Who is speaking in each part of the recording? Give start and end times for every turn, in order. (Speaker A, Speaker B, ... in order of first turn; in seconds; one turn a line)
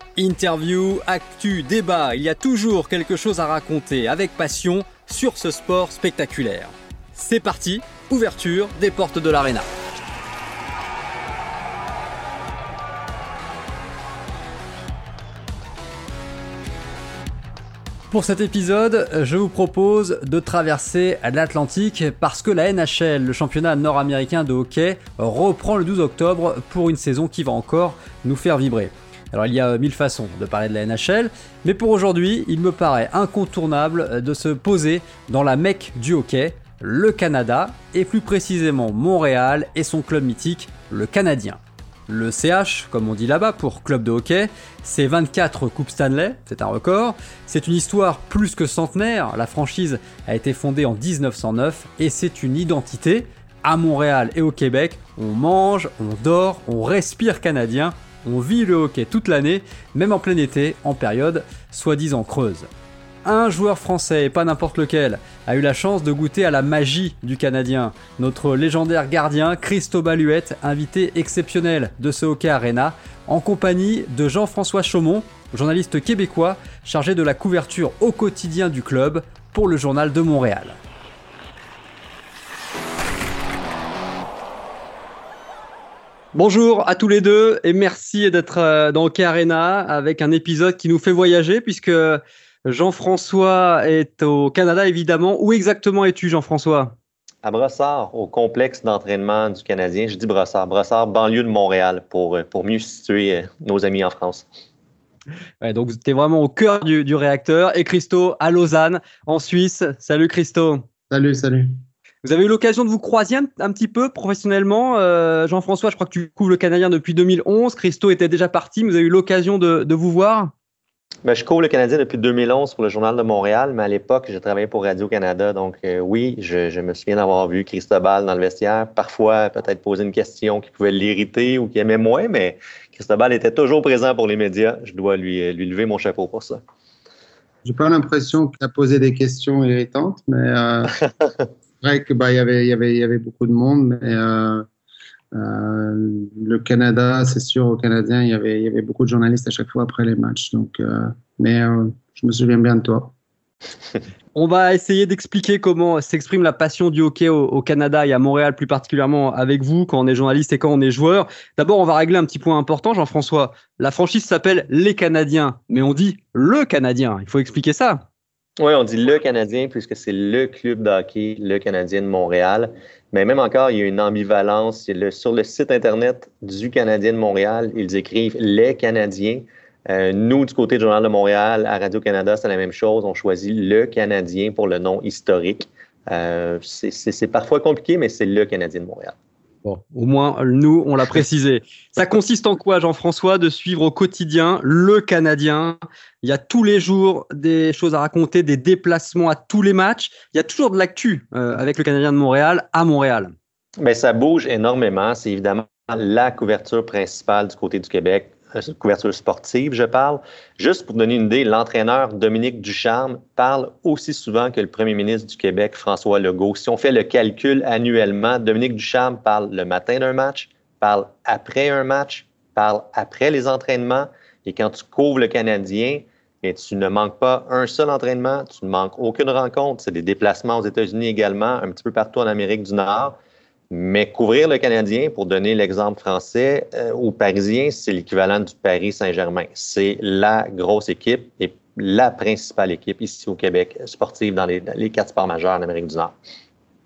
Speaker A: 0.2-9.7
Speaker A: 18.1-62.7
Speaker A: 63.2-80.8
Speaker A: 86.3-96.9
Speaker B: 97.4-104.5
Speaker A: 105.6-110.8
Speaker C: 111.1-111.7
Speaker A: 112.2-120.5
Speaker B: 121.2-136.6
Speaker C: 137.6-141.0
Speaker C: 141.8-144.7
Speaker C: 145.3-153.1
Speaker A: 154.3-168.0
Speaker B: 168.6-189.1
Speaker A: 189.6-203.3
Speaker B: 203.8-233.2
Speaker B: 233.7-246.2